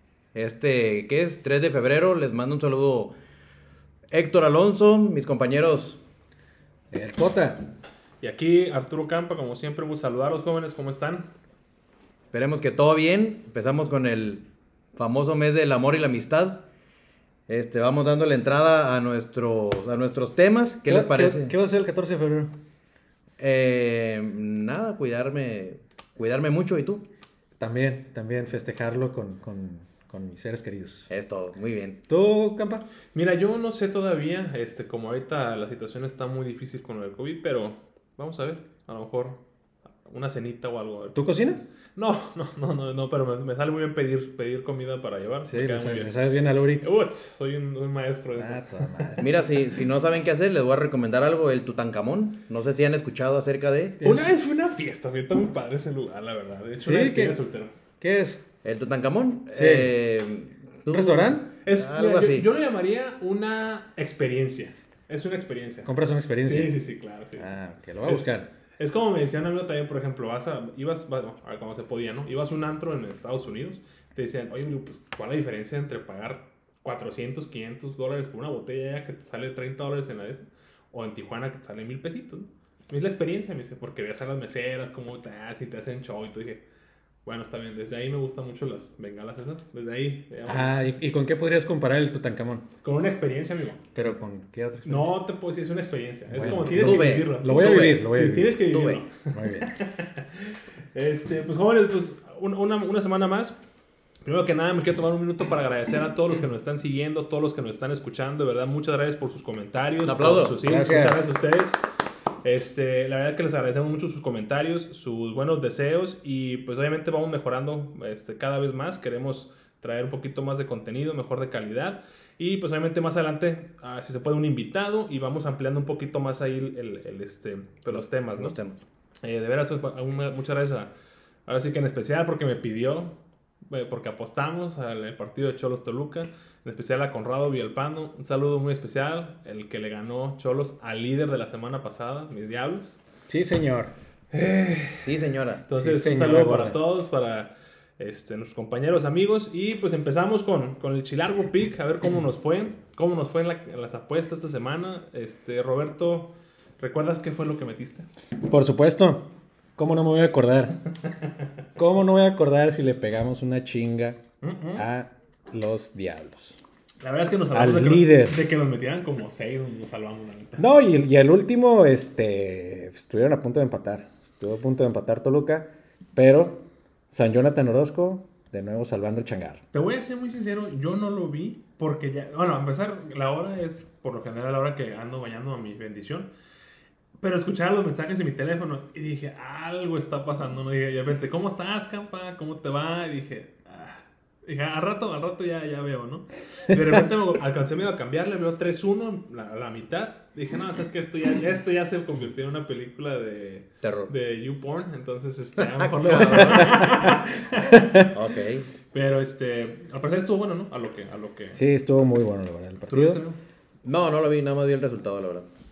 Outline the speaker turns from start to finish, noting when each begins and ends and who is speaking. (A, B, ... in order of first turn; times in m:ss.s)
0:00.3-0:03.1 A
0:04.1-0:06.0 A
0:06.9-0:07.6 B
0:08.2-0:11.3 C
0:12.3-0:14.4 A
0:15.0-0:16.6 A
0:17.5-0:21.5 A
0:20.9-0:22.5 B
0:23.4-0:27.0 A
0:27.6-0:31.1 B
0:31.1-0:32.0 A
0:32.1-0:32.8 B
0:33.1-0:39.4 C
0:40.0-0:46.2 C
0:41.1-0:41.6 B
0:45.4-0:46.9 B
0:46.8-0:49.3 C
0:48.4-0:49.3 B
0:49.2-0:54.0 A
0:54.0-0:54.3 B
0:54.0-0:57.7 C
0:56.8-0:57.4 B
0:58.0-0:58.4 B
0:58.6-1:02.5 A
0:59.5-0:59.9 B
1:00.9-1:01.5 B
1:01.6-1:05.9 C
1:05.8-1:06.8 B
1:06.4-1:07.5 C
1:07.4-1:08.5 B
1:08.0-1:26.6 C
1:27.2-1:30.8 C
1:30.5-1:32.6 B
1:32.8-1:33.8 C
1:34.0-1:35.2 B
1:34.8-1:43.6 C
1:36.3-1:38.6 B
1:36.4-1:38.1 A
1:38.7-1:39.0 A
1:39.3-1:39.7 B
1:44.2-1:51.8 C
1:50.0-1:50.6 A
1:50.6-1:51.3 B
1:52.4-2:08.6 C
2:07.9-2:08.8 A
2:09.2-2:10.9 C
2:11.5-2:13.2 C
2:13.7-2:23.0 C
2:23.3-2:23.9 B
2:24.3-2:25.1 C
2:25.0-2:25.6 A
2:25.7-2:38.1 C
2:25.8-2:26.8 B
2:38.4-2:40.8 B
2:41.8-2:44.2 B
2:44.4-2:44.9 C
2:44.8-2:46.6 B
2:47.0-2:50.7 C
2:47.5-2:48.4 B
2:50.6-2:59.6 B
2:59.7-3:06.3 C
3:07.2-3:27.8 C
3:23.8-3:24.1 A
3:25.6-3:27.0 A
3:26.2-3:28.1 B
3:28.1-3:28.6 A
3:28.9-3:31.6 C
3:31.6-3:33.2 B
3:32.9-3:33.4 C
3:33.8-3:35.5 A